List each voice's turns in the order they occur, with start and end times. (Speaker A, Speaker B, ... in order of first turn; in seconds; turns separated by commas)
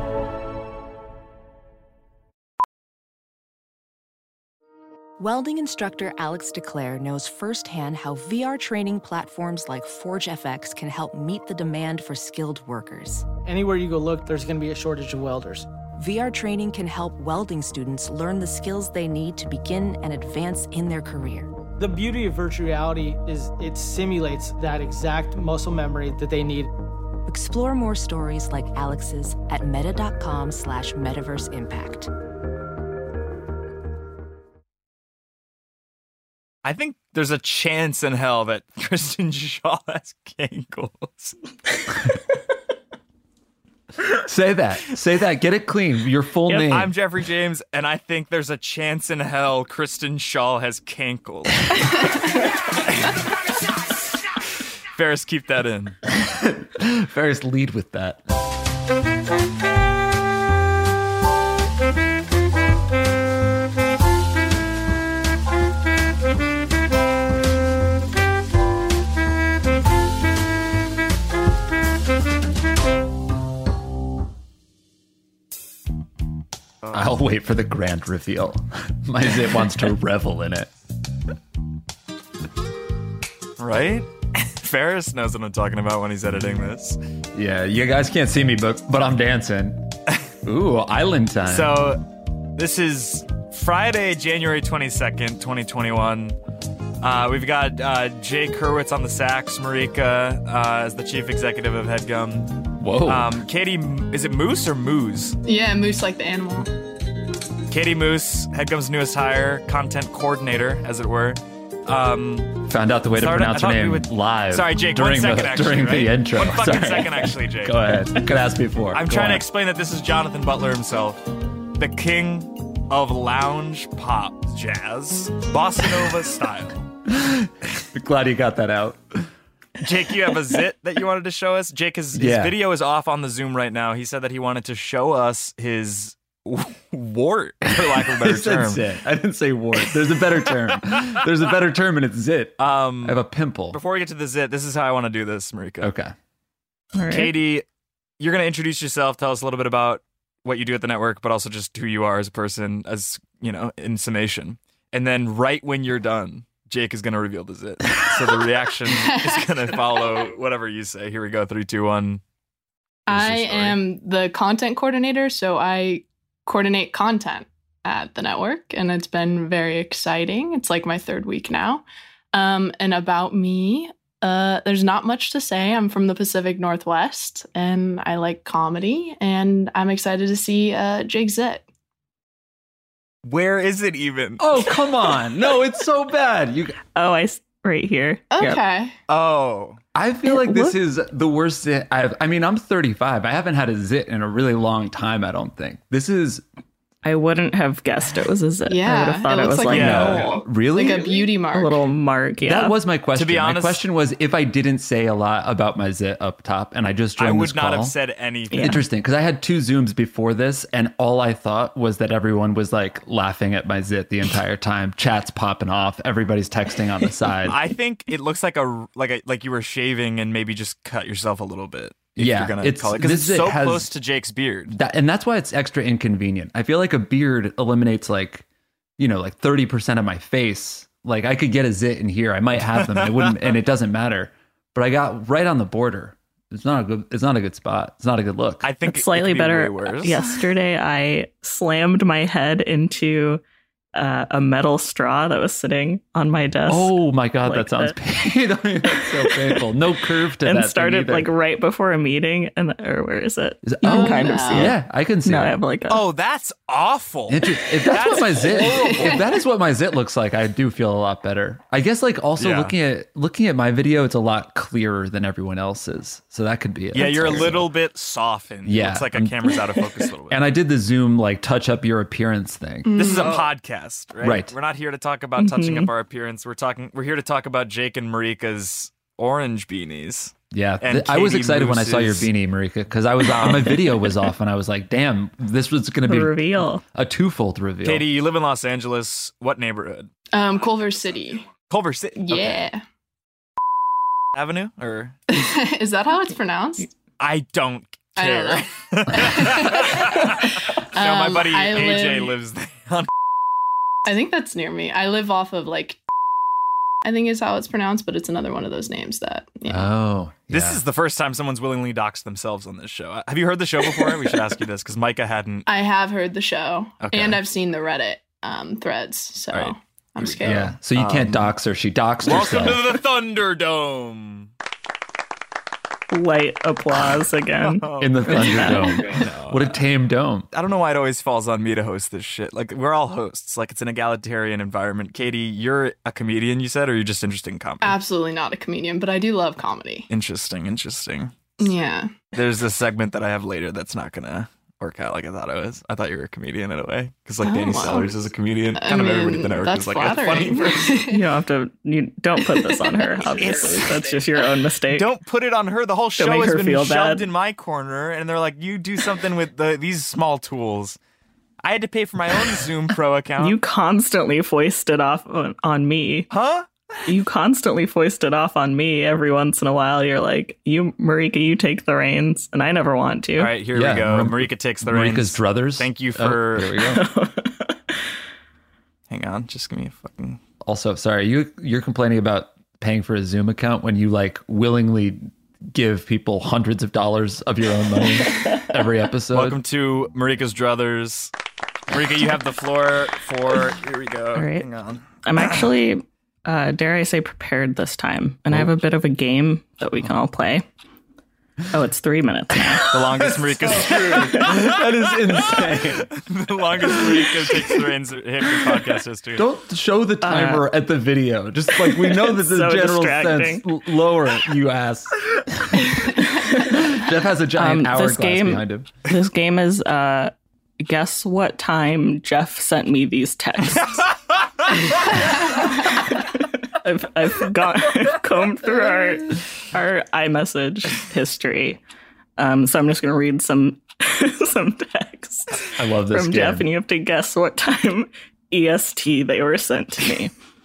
Speaker A: 5.2-13.2, Speaker B: 13.4-15.7, Speaker A: 16.0-21.5, Speaker B: 21.8-26.7, Speaker A: 27.2-32.1, Speaker C: 36.6-41.4, Speaker D: 44.1-46.9, Speaker C: 46.5-52.1, Speaker C: 54.9-56.0, Speaker D: 56.1-58.2, Speaker D: 76.9-80.7, Speaker C: 83.6-87.0, Speaker D: 87.3-89.9, Speaker D: 90.4-91.8, Speaker C: 91.5-92.0, Speaker C: 92.5-96.4, Speaker C: 97.0-105.4, Speaker D: 102.8-103.4, Speaker E: 105.4-106.7, Speaker C: 107.7-112.6, Speaker D: 112.7-119.4, Speaker C: 113.2-118.1, Speaker C: 118.9-121.2, Speaker C: 121.8-126.8, Speaker D: 127.0-129.2, Speaker C: 129.8-138.9, Speaker D: 132.1-132.6, Speaker D: 137.7-143.8, Speaker C: 142.6-145.9, Speaker D: 145.8-146.1, Speaker F: 146.9-147.3, Speaker C: 147.1-147.6, Speaker C: 148.2-162.2, Speaker E: 158.8-160.0, Speaker E: 163.1-181.6, Speaker C: 163.1-163.8, Speaker C: 183.2-184.5, Speaker D: 184.4-186.8, Speaker F: 186.9-188.6, Speaker E: 188.3-188.9, Speaker C: 189.1-189.8, Speaker D: 189.9-196.4, Speaker F: 190.2-190.8, Speaker F: 197.0-200.3, Speaker E: 198.7-201.9, Speaker C: 199.7-200.3, Speaker D: 199.7-201.3, Speaker F: 201.5-202.7, Speaker D: 202.4-207.9, Speaker C: 203.1-203.8, Speaker C: 207.2-208.7, Speaker F: 208.5-208.8, Speaker D: 208.5-217.6, Speaker C: 217.4-224.7, Speaker D: 222.2-223.9, Speaker D: 224.7-228.4, Speaker D: 229.0-238.7, Speaker C: 232.7-233.5, Speaker C: 238.6-240.2, Speaker F: 238.8-243.4, Speaker F: 243.9-247.9, Speaker D: 246.7-251.3, Speaker F: 250.4-256.0, Speaker D: 253.6-255.6, Speaker E: 253.8-254.7, Speaker C: 255.9-259.3, Speaker D: 257.3-267.7, Speaker E: 258.7-259.2, Speaker C: 262.4-262.7, Speaker C: 266.9-270.4, Speaker D: 268.6-269.6, Speaker D: 270.3-273.3, Speaker E: 272.8-273.5, Speaker C: 272.9-282.3, Speaker D: 274.2-274.5, Speaker F: 275.4-275.9, Speaker D: 280.5-288.1, Speaker F: 286.1-286.8, Speaker C: 287.8-290.1, Speaker E: 290.3-291.5, Speaker C: 291.7-292.6, Speaker E: 292.2-292.8, Speaker C: 294.3-295.1, Speaker E: 295.3-296.9, Speaker C: 297.2-303.1, Speaker E: 298.2-302.3, Speaker E: 304.0-306.0, Speaker E: 307.0-309.9, Speaker D: 309.7-310.8, Speaker C: 310.5-315.7, Speaker E: 315.7-320.7, Speaker C: 317.0-317.4, Speaker C: 319.5-321.5, Speaker D: 320.4-322.8, Speaker C: 322.2-324.5, Speaker F: 326.1-329.1, Speaker C: 327.6-329.8, Speaker D: 328.0-330.5, Speaker C: 330.5-337.9, Speaker E: 337.8-340.1, Speaker C: 340.1-341.3, Speaker E: 341.6-342.1, Speaker C: 342.3-351.0, Speaker E: 347.4-348.1, Speaker E: 348.8-351.2, Speaker F: 351.1-355.1, Speaker E: 352.4-353.3, Speaker C: 353.3-354.1, Speaker C: 354.9-361.0, Speaker F: 356.2-357.3, Speaker C: 361.6-363.6, Speaker F: 363.4-366.3, Speaker C: 366.3-367.0, Speaker F: 367.1-373.5, Speaker C: 373.4-376.8, Speaker D: 373.7-377.1, Speaker F: 376.9-377.9, Speaker C: 379.1-380.4, Speaker D: 380.6-389.6, Speaker C: 389.3-391.3, Speaker C: 391.9-395.6, Speaker F: 394.4-394.7, Speaker F: 395.2-400.6, Speaker F: 401.7-402.9, Speaker C: 402.9-409.5, Speaker D: 402.9-406.1, Speaker D: 406.8-407.8, Speaker D: 409.3-418.9, Speaker F: 410.2-410.7, Speaker F: 411.8-413.6, Speaker F: 416.2-416.9, Speaker F: 417.6-424.1, Speaker F: 425.8-431.8, Speaker F: 432.4-440.3, Speaker D: 435.8-436.7